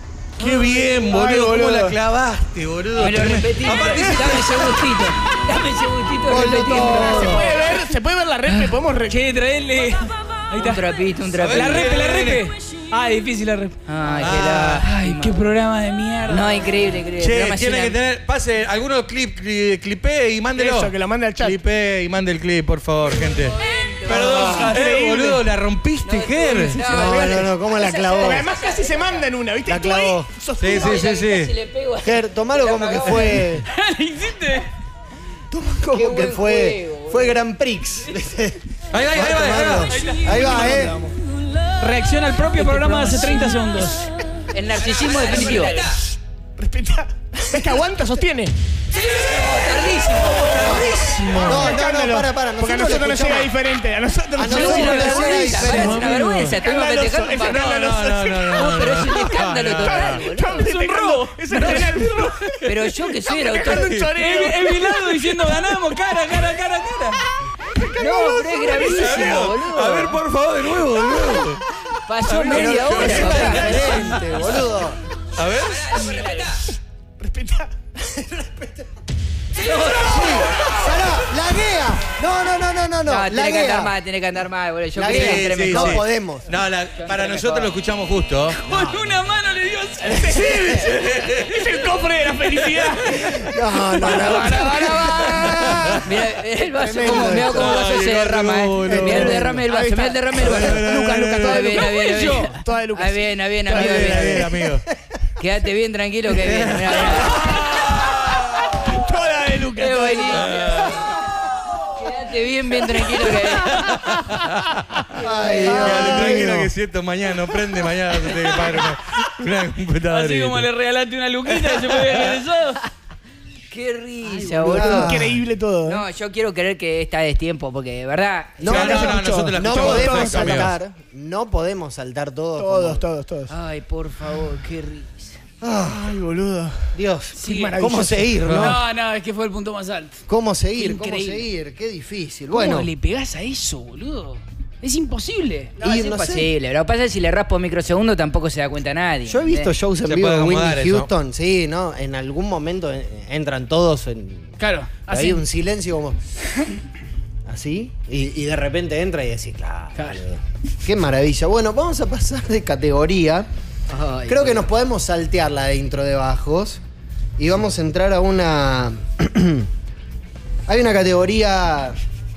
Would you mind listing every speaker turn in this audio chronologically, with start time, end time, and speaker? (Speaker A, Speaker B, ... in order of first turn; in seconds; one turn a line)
Speaker A: 0.4-2.0
Speaker B: 0.4-5.0
Speaker C: 3.0-7.4
Speaker D: 6.2-7.5
Speaker A: 6.9-9.2
Speaker E: 8.5-10.8
Speaker C: 10.6-11.9
Speaker B: 11.3-12.3
Speaker E: 11.5-13.8
Speaker A: 11.9-12.4
Speaker C: 13.9-15.4
Speaker B: 14.2-14.9
Speaker E: 14.8-16.7
Speaker C: 16.3-17.9
Speaker B: 17.2-26.8
Speaker A: 20.5-21.6
Speaker C: 23.2-24.7
Speaker A: 24.1-25.4
Speaker D: 24.2-24.6
Speaker C: 26.0-29.3
Speaker A: 26.8-27.5
Speaker D: 26.8-28.5
Speaker A: 28.1-31.1
Speaker D: 29.6-30.3
Speaker B: 30.6-31.5
Speaker C: 30.7-33.5
Speaker D: 32.0-33.6
Speaker E: 33.7-34.7
Speaker D: 35.5-41.0
Speaker C: 35.9-37.4
Speaker B: 38.9-40.1
Speaker E: 39.9-40.5
Speaker A: 40.2-41.1
Speaker E: 41.8-44.1
Speaker A: 42.6-44.1
Speaker C: 44.5-45.8
Speaker E: 44.9-46.0
Speaker B: 45.1-45.8
Speaker A: 45.8-48.5
Speaker C: 48.9-50.8
Speaker B: 50.2-51.6
Speaker A: 50.5-56.0
Speaker D: 51.4-53.5
Speaker D: 54.3-56.0
Speaker C: 54.4-57.6
Speaker B: 55.5-56.6
Speaker A: 56.6-65.6
Speaker B: 57.2-60.2
Speaker C: 58.5-60.7
Speaker E: 60.5-62.3
Speaker C: 61.5-61.9
Speaker C: 62.6-63.9
Speaker B: 63.5-64.1
Speaker E: 64.2-67.2
Speaker A: 67.7-69.5
Speaker C: 67.9-70.2
Speaker B: 68.8-71.6
Speaker C: 72.0-74.2
Speaker B: 72.2-74.4
Speaker D: 72.5-75.0
Speaker B: 75.3-76.2
Speaker C: 75.6-76.6
Speaker A: 77.2-77.7
Speaker D: 78.0-78.9
Speaker C: 79.6-81.2
Speaker D: 79.8-83.9
Speaker C: 83.0-86.0
Speaker D: 85.0-86.5
Speaker B: 85.0-88.6
Speaker E: 87.0-87.6
Speaker E: 88.5-90.8
Speaker D: 88.7-89.0
Speaker A: 90.1-95.7
Speaker B: 90.5-91.7
Speaker B: 92.6-93.0
Speaker D: 93.2-96.0
Speaker E: 94.2-95.2
Speaker C: 94.5-95.1
Speaker B: 95.5-96.0
Speaker C: 96.0-104.5
Speaker D: 96.7-97.8
Speaker B: 97.3-99.6
Speaker D: 98.8-99.4
Speaker A: 98.9-104.6
Speaker B: 100.4-101.9
Speaker E: 102.0-102.5
Speaker B: 103.7-104.8
Speaker C: 105.4-107.6
Speaker B: 106.3-108.8
Speaker A: 108.8-110.8
Speaker C: 109.8-111.0
Speaker B: 110.3-111.0
Speaker C: 111.9-113.9
Speaker B: 113.3-115.2
Speaker D: 115.1-116.6
Speaker A: 115.2-116.7
Speaker B: 115.8-120.7
Speaker E: 120.1-122.8
Speaker B: 121.6-122.2
Speaker C: 123.7-125.2
Speaker D: 124.2-125.4
Speaker A: 124.6-126.0
Speaker C: 125.8-128.8
Speaker D: 128.6-133.1
Speaker A: 128.7-130.7
Speaker B: 128.7-130.7
Speaker A: 132.6-133.5
Speaker C: 133.5-135.4
Speaker D: 135.6-136.1
Speaker A: 135.8-138.4
Speaker D: 136.9-138.8
Speaker E: 137.4-137.8
Speaker B: 138.4-138.8
Speaker E: 138.5-140.2
Speaker D: 140.3-142.9
Speaker E: 140.8-141.4
Speaker E: 142.5-145.8
Speaker D: 145.8-146.5
Speaker C: 145.8-149.7
Speaker D: 149.2-156.2
Speaker B: 150.0-151.1
Speaker E: 154.6-155.4
Speaker D: 157.4-163.5
Speaker E: 159.9-160.2
Speaker C: 163.9-164.7
Speaker D: 164.2-166.8
Speaker D: 167.4-169.7
Speaker D: 170.7-172.0